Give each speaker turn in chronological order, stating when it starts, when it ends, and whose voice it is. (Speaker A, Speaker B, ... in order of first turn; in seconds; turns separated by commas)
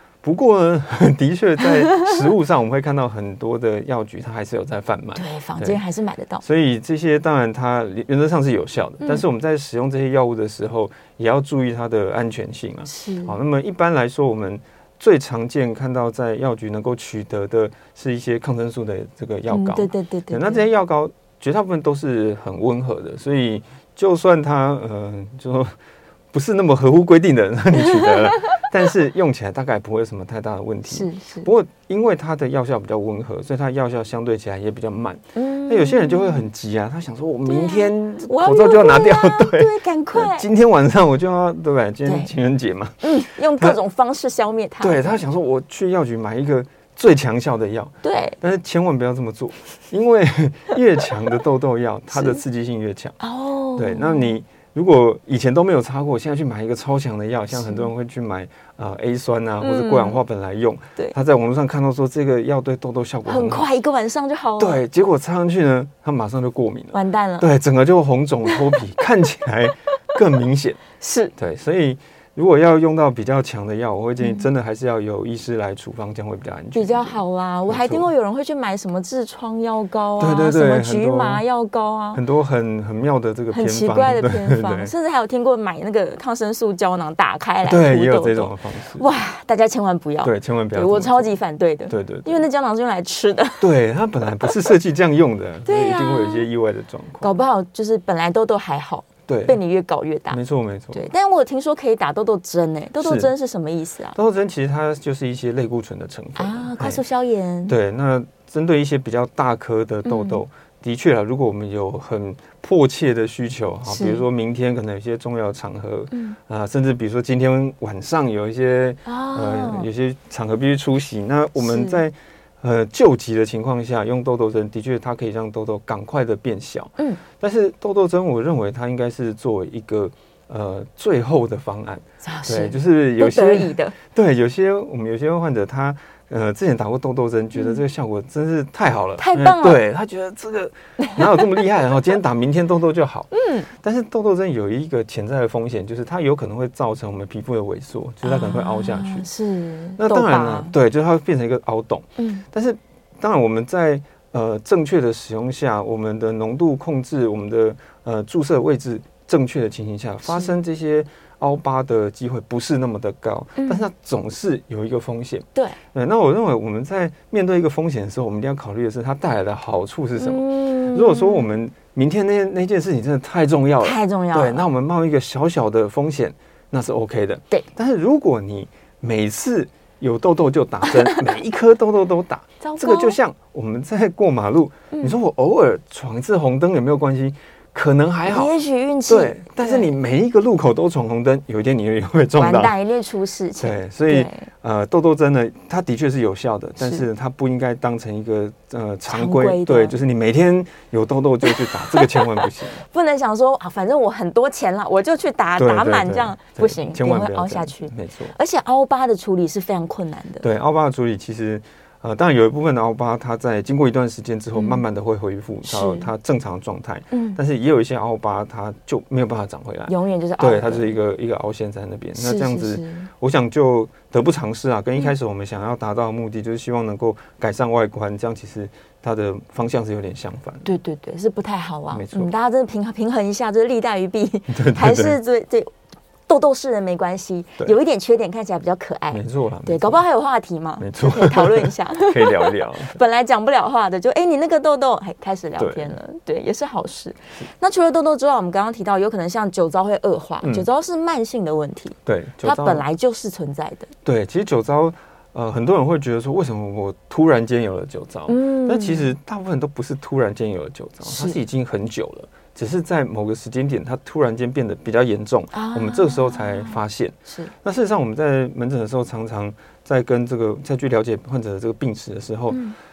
Speaker A: 0.2-5.8, Speaker B: 1.7-2.1, Speaker B: 5.1-6.4, Speaker A: 6.4-25.7, Speaker B: 12.9-13.3, Speaker B: 19.5-20.6, Speaker A: 26.3-43.8, Speaker B: 27.8-28.6, Speaker B: 30.9-31.5, Speaker B: 35.4-36.5, Speaker B: 37.5-40.4, Speaker B: 42.0-42.3, Speaker B: 43.0-45.2, Speaker A: 44.8-53.2, Speaker B: 48.0-48.4, Speaker B: 52.1-52.4, Speaker B: 53.2-54.3, Speaker A: 53.8-63.7, Speaker B: 57.5-57.9, Speaker B: 59.6-60.2, Speaker B: 63.2-64.8, Speaker A: 64.6-70.8, Speaker B: 66.9-67.5, Speaker B: 71.0-71.3, Speaker A: 71.4-78.1, Speaker B: 76.7-82.2, Speaker A: 80.2-81.4, Speaker A: 82.1-84.9, Speaker B: 83.5-93.7, Speaker A: 87.6-89.1, Speaker A: 90.2-91.3, Speaker A: 91.9-92.4, Speaker A: 93.6-97.3, Speaker B: 94.4-94.6, Speaker B: 95.7-96.5, Speaker B: 97.2-100.4, Speaker A: 99.3-99.6, Speaker A: 100.3-101.0, Speaker B: 100.9-104.2, Speaker A: 103.0-103.3, Speaker A: 104.1-107.0, Speaker B: 106.4-107.8, Speaker A: 107.7-149.3, Speaker B: 110.0-110.4, Speaker B: 113.8-114.2, Speaker B: 116.1-116.4, Speaker B: 119.0-119.9, Speaker B: 121.6-122.0, Speaker B: 132.2-133.9, Speaker B: 137.5-137.8, Speaker B: 139.2-139.8, Speaker B: 141.0-141.5, Speaker B: 143.3-143.7, Speaker B: 148.2-150.7, Speaker A: 150.0-188.5, Speaker B: 152.2-152.4, Speaker B: 163.6-163.8, Speaker B: 170.2-171.5, Speaker B: 173.8-174.6, Speaker B: 182.6-183.2, Speaker B: 188.3-189.9, Speaker A: 189.1-192.8, Speaker B: 192.4-194.4, Speaker A: 193.6-202.8, Speaker B: 196.8-197.0, Speaker B: 199.1-199.9, Speaker B: 201.7-210.4, Speaker A: 205.6-208.3, Speaker A: 210.4-230.7, Speaker B: 214.5-214.8, Speaker B: 215.6-216.1, Speaker B: 217.1-217.4, Speaker B: 219.9-221.0, Speaker B: 222.2-223.1, Speaker B: 230.6-235.7, Speaker A: 231.9-232.3, Speaker A: 234.5-235.2, Speaker B: 236.3-253.9, Speaker A: 239.1-240.0, Speaker A: 240.8-243.0, Speaker A: 245.6-245.9, Speaker A: 250.4-250.7, Speaker A: 252.1-252.8, Speaker A: 254.0-272.6, Speaker B: 258.3-259.1, Speaker B: 261.0-261.4, Speaker B: 265.5-267.5, Speaker B: 272.5-272.8